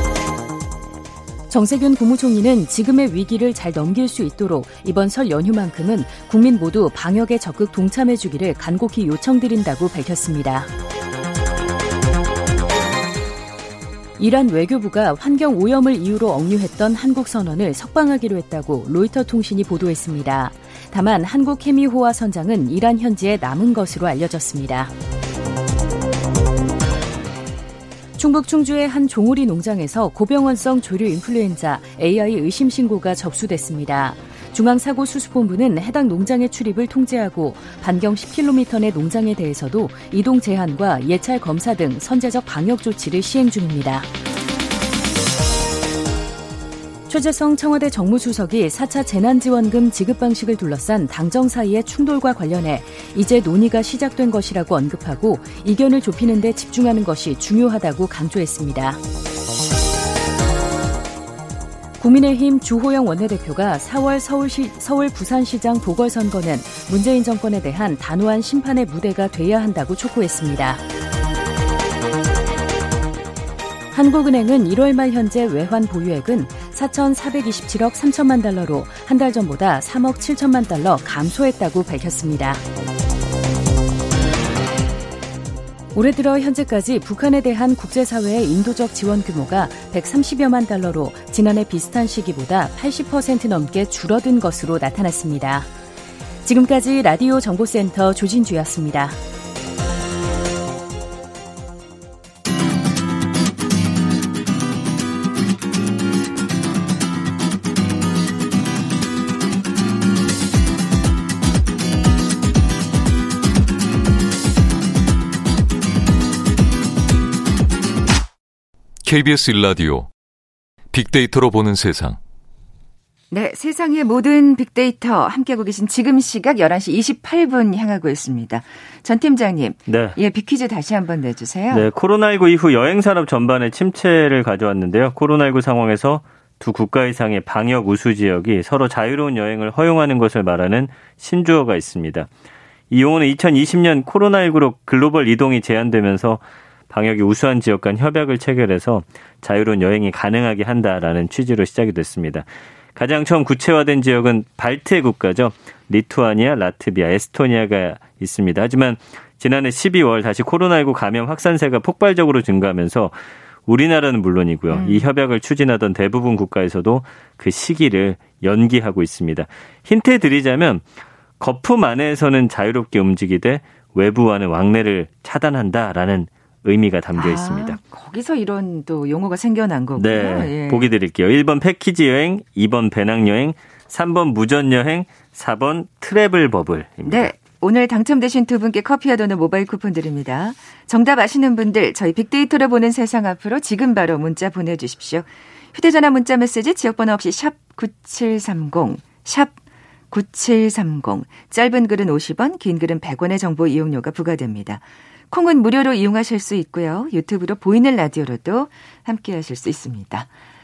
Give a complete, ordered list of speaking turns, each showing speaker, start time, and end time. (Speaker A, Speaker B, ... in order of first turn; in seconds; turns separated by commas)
Speaker A: 1.5-10.7, Speaker A: 14.2-24.9, Speaker A: 28.2-44.1, Speaker A: 47.1-59.0, Speaker A: 62.0-70.8, Speaker A: 73.9-82.6, Speaker A: 85.9-95.7, Speaker A: 96.4-99.2, Speaker B: 119.0-120.1, Speaker B: 120.9-122.2, Speaker C: 123.3-131.9, Speaker D: 129.9-130.2, Speaker D: 131.7-142.3, Speaker D: 142.9-163.1, Speaker D: 163.7-170.9, Speaker C: 164.7-165.1, Speaker D: 171.4-177.8, Speaker C: 177.1-180.9, Speaker D: 179.9-187.3, Speaker C: 187.0-199.5, Speaker C: 200.1-210.3